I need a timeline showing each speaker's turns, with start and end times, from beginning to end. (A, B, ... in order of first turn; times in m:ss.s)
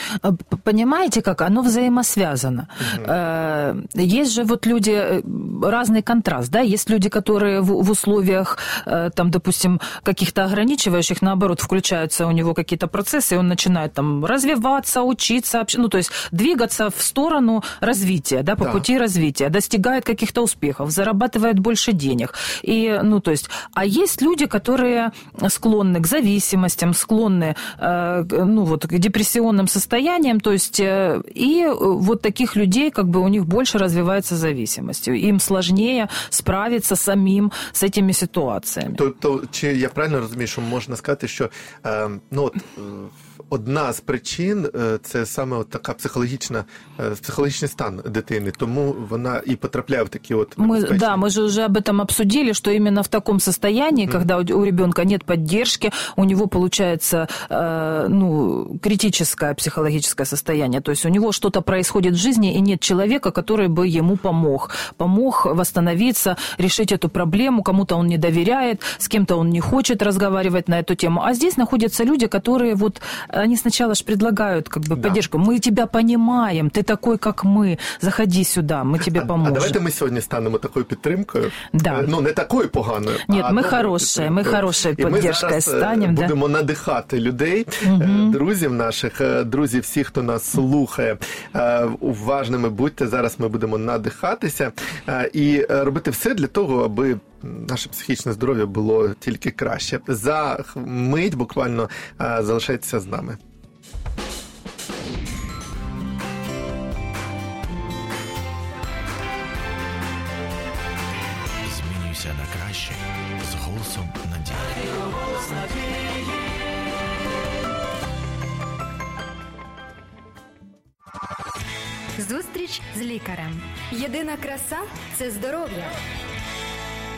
0:00.2-0:39.0 A
0:02.8-0:03.1 B
0:38.9-0:51.2 B
0:50.6-1:19.8 A
1:15.0-1:15.2 B
1:19.0-1:43.4 B
1:21.7-1:22.1 A
1:23.3-1:26.3 A
1:27.8-1:28.4 A
1:51.6-1:55.1 C
2:02.2-2:06.0 D